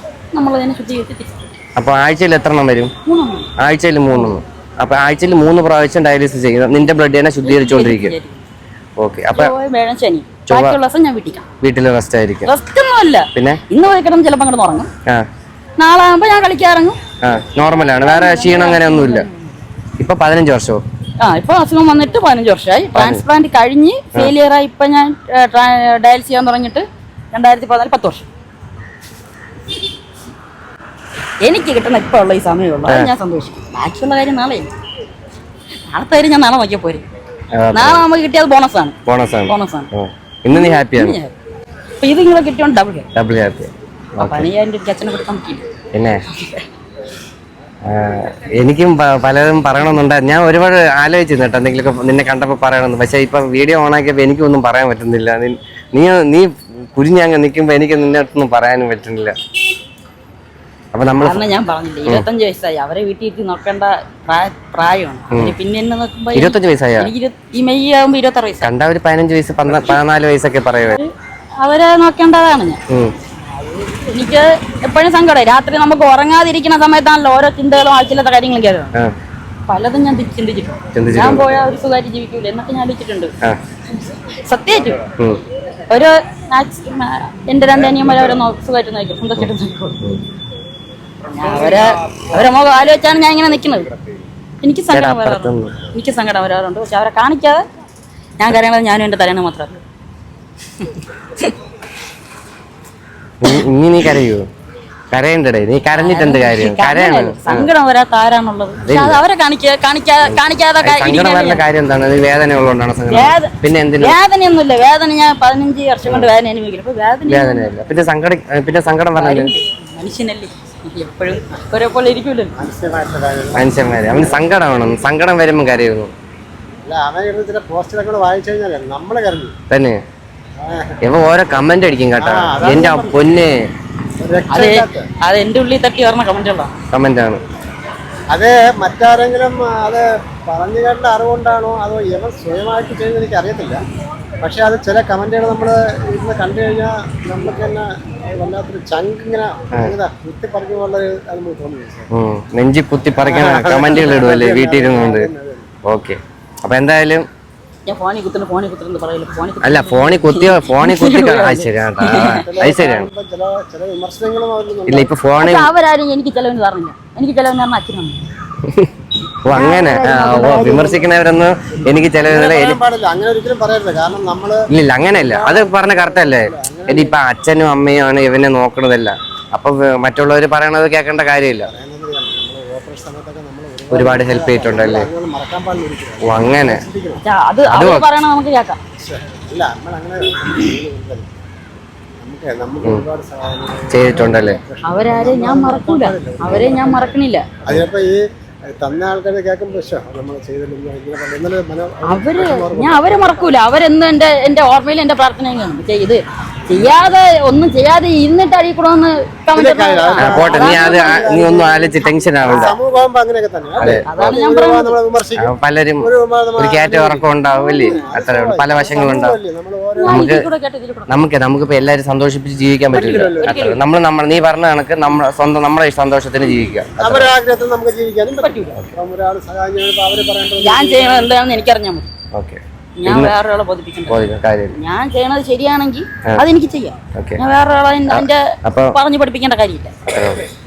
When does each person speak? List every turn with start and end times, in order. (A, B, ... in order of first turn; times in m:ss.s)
0:00.3-0:01.5 A
0:01.8-0:02.9 B
0:03.0-0:03.5 A
0:03.6-0:08.2 B
0:04.1-0:04.4 A
0:07.4-0:08.4 A
0:09.0-0:09.5 B
0:09.3-0:11.4 A
0:10.5-0:10.8 B
0:11.6-0:12.5 B
0:12.4-0:14.9 A
0:13.3-0:13.6 B
0:15.8-0:17.0 A
0:17.2-0:19.2 B
0:18.0-0:19.5 A
0:20.0-0:20.8 B
0:21.2-0:28.3 A
0:22.9-0:23.2 B
0:31.4-0:34.7 A
0:32.9-0:33.1 B
0:35.9-0:37.0 A
0:37.5-0:38.0 B
0:37.7-0:39.9 A
0:39.0-0:41.2 B
0:40.5-0:41.3 A
0:42.0-0:43.1 A
0:43.1-0:44.5 B
0:44.2-0:45.7 A
0:45.9-0:46.2 B
0:46.4-0:46.6 A
0:47.8-0:59.3 B
1:00.9-1:01.5 B
1:01.2-1:08.7 A
1:05.3-1:05.6 B
1:06.3-1:07.1 B
1:08.6-1:11.0 B
1:10.9-1:12.8 A
1:12.9-1:13.1 B
1:13.4-1:19.0 A
1:19.7-1:23.3 A
1:20.9-1:21.7 B
1:24.0-1:25.0 A
1:25.2-1:25.4 B
1:25.9-1:30.0 A
1:31.3-1:33.9 A
1:34.6-1:37.6 A
1:34.9-1:35.7 B
1:38.4-1:39.8 A
1:40.8-1:41.5 A
1:43.4-1:44.5 B
1:45.1-1:47.7 B
1:45.9-1:51.6 A
1:48.8-1:49.2 B
1:50.2-1:54.2 B
1:53.1-1:57.7 A
1:56.0-1:56.3 B
1:57.3-1:59.5 B
1:59.2-2:02.5 A
2:02.5-2:04.4 C
2:03.5-2:06.1 B
2:06.8-2:09.5 C
2:09.7-2:10.0 B
2:10.6-2:11.0 C
2:11.0-2:13.6 B
2:12.2-2:13.2 C
2:14.2-2:15.0 C
2:14.5-2:16.7 A
2:16.9-2:17.4 B
2:18.3-2:23.8 C
2:24.4-2:32.1 C
2:32.1-2:35.3 B
2:33.2-2:35.6 C
2:34.0-2:34.2 A
2:35.8-2:37.2 B
2:37.8-2:42.5 A
2:39.6-2:43.1 B
2:42.1-2:45.1 C
2:44.9-2:45.7 B
2:45.4-2:48.2 A
2:48.6-2:48.9 B
2:49.4-2:52.8 B
2:49.5-2:51.0 A
2:51.9-2:57.2 C
2:54.7-3:01.7 B
3:01.6-3:07.2 C
3:03.9-3:05.1 B
3:06.2-3:06.8 B
3:07.2-3:08.8 A
3:07.7-3:08.0 B
3:09.0-3:11.3 C
3:12.2-3:23.5 C
3:13.9-3:14.6 B
3:14.8-3:17.5 A
3:22.0-3:31.3 A
3:26.7-3:27.1 C
3:29.5-3:40.3 C
3:30.2-3:32.8 B
3:32.4-3:32.7 A
3:33.8-3:34.4 B
3:33.9-3:35.0 A
3:35.4-3:39.4 B
3:37.5-3:38.2 A
3:38.7-3:39.2 A
3:40.0-3:41.2 A
3:40.0-3:40.4 B
3:41.1-3:47.3 B
3:42.9-3:43.7 C
3:42.9-3:43.8 A
3:47.0-3:51.3 C
3:48.4-3:48.8 A
3:50.6-3:52.1 A
3:52.3-3:53.3 B
3:53.0-3:54.2 A
3:54.1-3:54.8 B
3:54.8-3:59.9 A
3:58.1-3:59.0 B
4:00.1-4:00.4 B